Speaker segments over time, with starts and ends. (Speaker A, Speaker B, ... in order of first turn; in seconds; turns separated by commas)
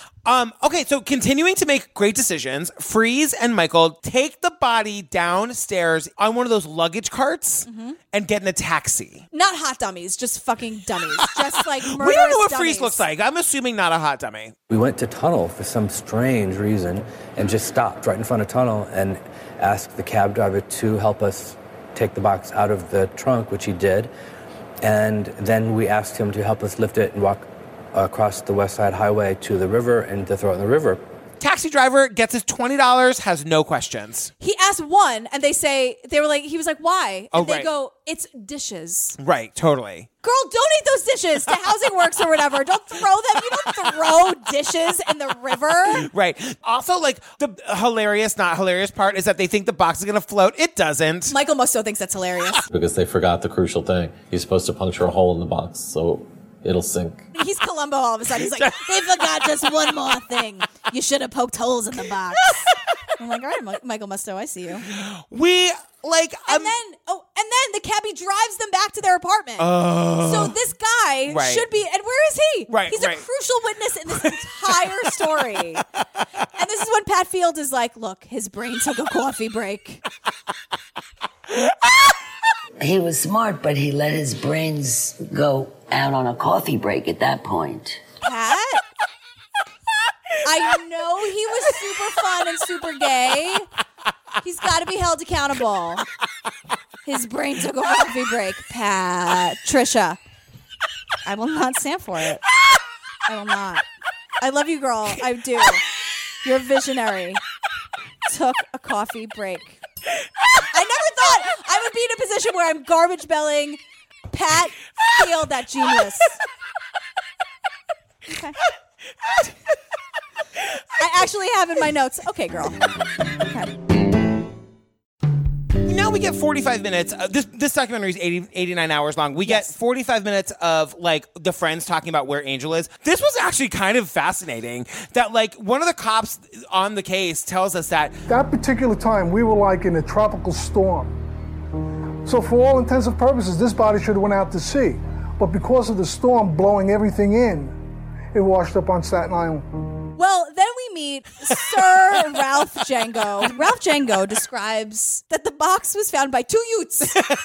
Speaker A: 0.2-9.2, Speaker B: 7.7-8.0, Speaker B: 9.3-13.1, Speaker A: 11.8-14.5, Speaker C: 14.7-24.1, Speaker C: 24.8-31.0, Speaker A: 31.4-34.3, Speaker B: 34.4-39.2, Speaker A: 37.3-37.7, Speaker A: 39.2-40.1, Speaker B: 40.2-46.1, Speaker A: 45.9-51.3, Speaker B: 51.3-52.6, Speaker D: 52.7-57.2, Speaker B: 57.3-62.7, Speaker A: 58.4-58.8, Speaker B: 63.2-64.8, Speaker A: 64.9-66.7, Speaker B: 66.5-75.8, Speaker A: 69.6-70.5, Speaker A: 71.3-71.7, Speaker A: 72.7-73.2, Speaker B: 76.5-80.0, Speaker E: 82.8-88.0, Speaker B: 88.2-88.8, Speaker B: 90.4-93.7, Speaker B: 94.4-96.0, Speaker B: 97.0-100.2, Speaker B: 101.2-102.4, Speaker B: 103.3-103.8, Speaker B: 104.4-105.8, Speaker B: 106.4-107.4, Speaker B: 108.2-109.8, Speaker B: 110.7-113.8, Speaker B: 114.3-116.4, Speaker B: 118.3-118.6, Speaker B: 121.0-122.8, Speaker B: 123.5-123.7, Speaker A: 125.8-138.2, Speaker B: 129.4-129.7, Speaker F: 138.3-141.1, Speaker F: 142.2-147.7, Speaker F: 148.3-149.6, Speaker B: 150.2-157.2